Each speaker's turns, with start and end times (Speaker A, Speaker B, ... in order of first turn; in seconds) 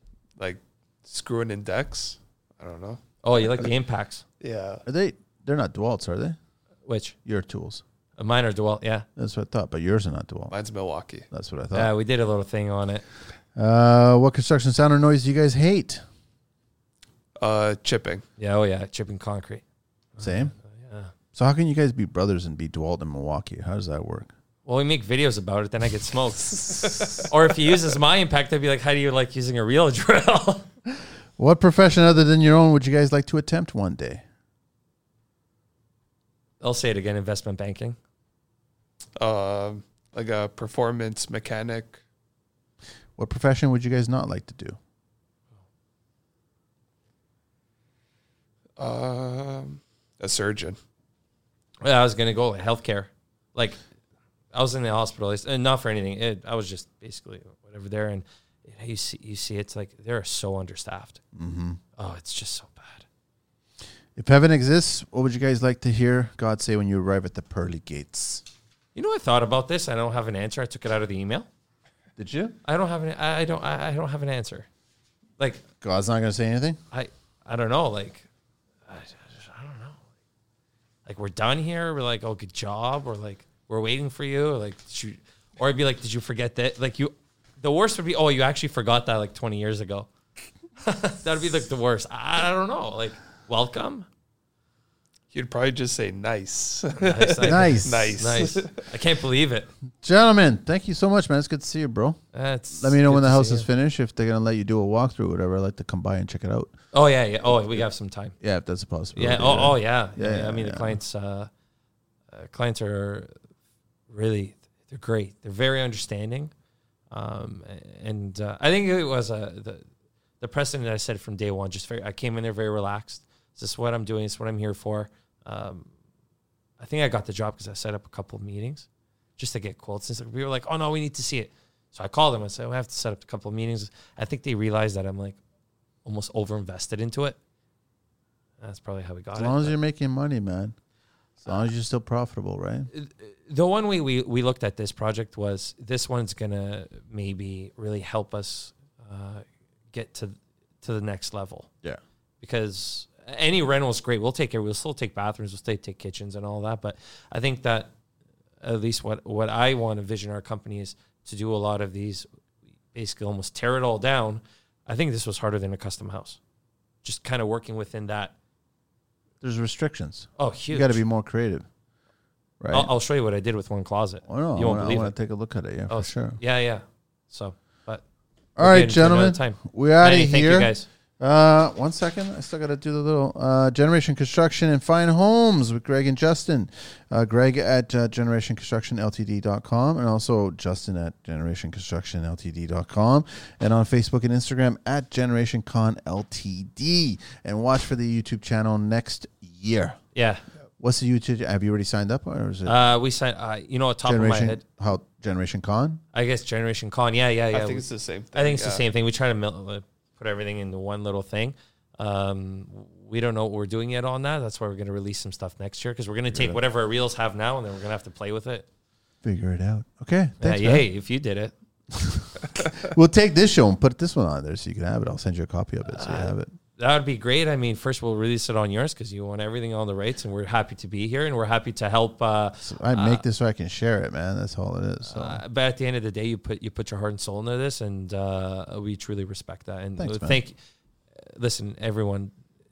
Speaker A: 0.4-3.6, 4.4-4.8, 10.5-11.3, 17.4-18.2, 39.2-42.0, 48.8-50.8, 95.3-98.8, 207.5-208.8
Speaker B: 3.2-4.2, 6.8-7.2, 8.2-9.1, 11.7-13.0, 18.4-19.6, 20.2-21.1, 24.6-30.7, 36.6-38.0, 51.8-53.8, 54.5-61.2, 62.0-63.0, 68.9-71.5, 72.6-74.7, 76.9-78.3, 78.9-80.0, 81.0-90.1, 90.8-94.1, 97.0-99.7, 102.3-103.7, 106.9-108.3, 109.1-111.5, 112.3-113.3, 114.1-116.5, 117.1-119.8, 120.4-125.9, 126.8-135.4, 136.0-137.4, 138.6-139.7, 142.9-151.7, 152.4-157.9, 158.6-162.3, 162.9-166.4, 167.0-168.3, 170.4-171.0, 172.7-175.1, 175.9-178.0, 178.6-180.9, 200.1-200.4, 202.7-204.6, 206.1-218.7, 220.4-221.5, 225.8-233.2, 235.0-240.6, 241.2-242.3
Speaker C: 4.8-6.4, 7.2-7.8, 9.2-10.5, 11.3-11.9, 13.6-16.0, 20.2-20.5, 21.3-24.3, 31.4-34.2, 43.2-44.8, 61.3-61.8, 64.2-68.4, 72.2-72.6, 75.8-76.8, 97.4-98.2, 100.0-102.2, 102.7-106.7, 108.4-111.0, 139.3-140.8, 141.4-142.9, 169.4-171.7, 172.6-172.9, 174.3-176.4, 178.6-200.0, 200.8-202.8, 204.0-206.0, 216.3-216.6, 219.2-220.8, 221.9-226.5, 232.6-235.4, 240.0-240.4